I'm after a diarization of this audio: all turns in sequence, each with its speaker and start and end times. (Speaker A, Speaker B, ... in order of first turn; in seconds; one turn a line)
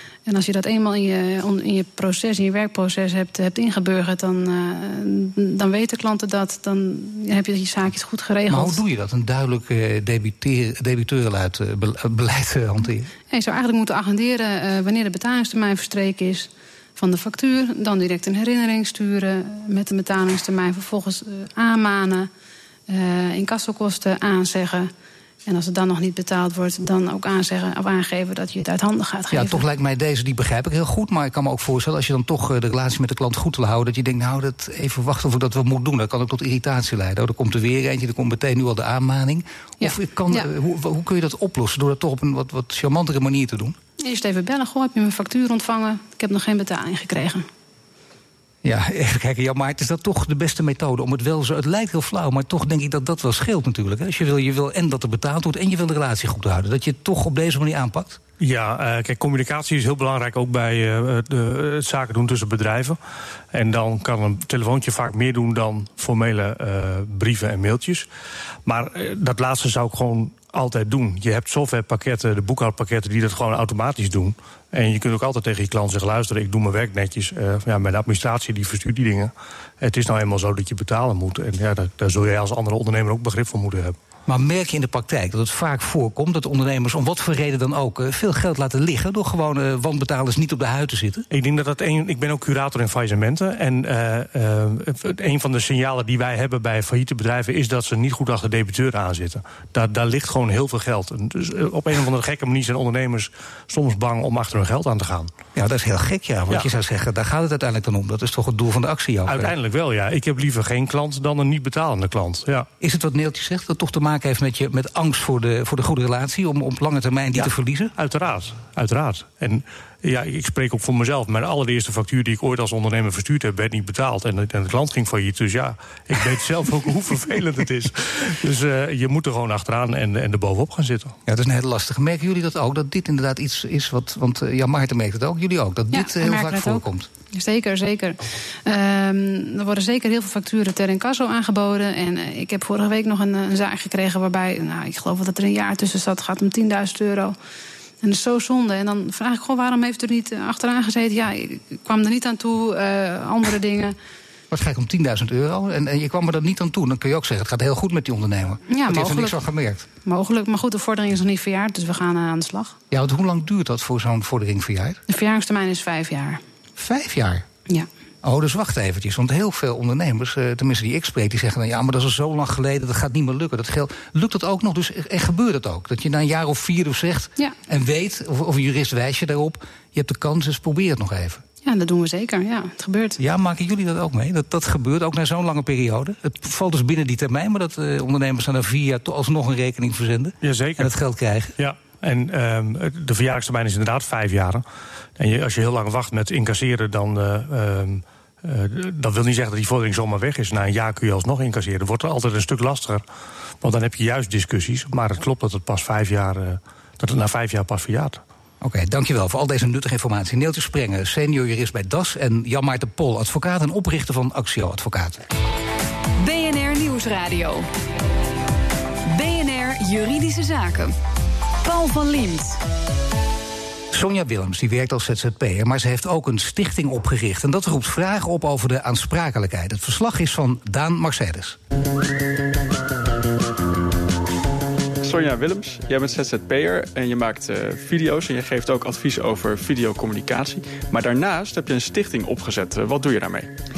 Speaker A: 0.3-8.8
Speaker B: 8.5-13.1
Speaker A: 13.3-22.3
Speaker A: 22.9-24.9
Speaker A: 25.5-29.6
Speaker B: 29.3-43.8
Speaker A: 39.8-40.5
Speaker A: 44.0-47.5
Speaker B: 48.6-58.2
Speaker C: 58.4-63.0
Speaker C: 63.5-68.1
Speaker C: 68.7-84.0
Speaker B: 84.3-91.3
Speaker C: 91.3-105.3
Speaker B: 105.5-109.5
Speaker C: 109.3-112.7
Speaker B: 112.8-118.0
Speaker C: 117.4-131.2
Speaker B: 131.3-137.1
Speaker A: 135.9-147.3
Speaker A: 148.0-153.9
Speaker B: 154.5-159.8
Speaker A: 158.7-159.4
Speaker A: 160.0-162.8
Speaker B: 162.9-165.0
Speaker A: 165.1-166.4
Speaker B: 166.8-167.5
Speaker B: 168.2-181.4
Speaker A: 181.6-183.2
Speaker B: 183.2-191.6
Speaker C: 190.4-190.9
Speaker C: 191.6-194.6
Speaker C: 195.2-203.0
Speaker C: 203.6-208.2
Speaker B: 208.6-215.2
Speaker D: 216.2-217.7
Speaker D: 219.1-220.9
Speaker D: 221.6-222.6
Speaker B: 223.9-231.6
Speaker E: 235.0-243.5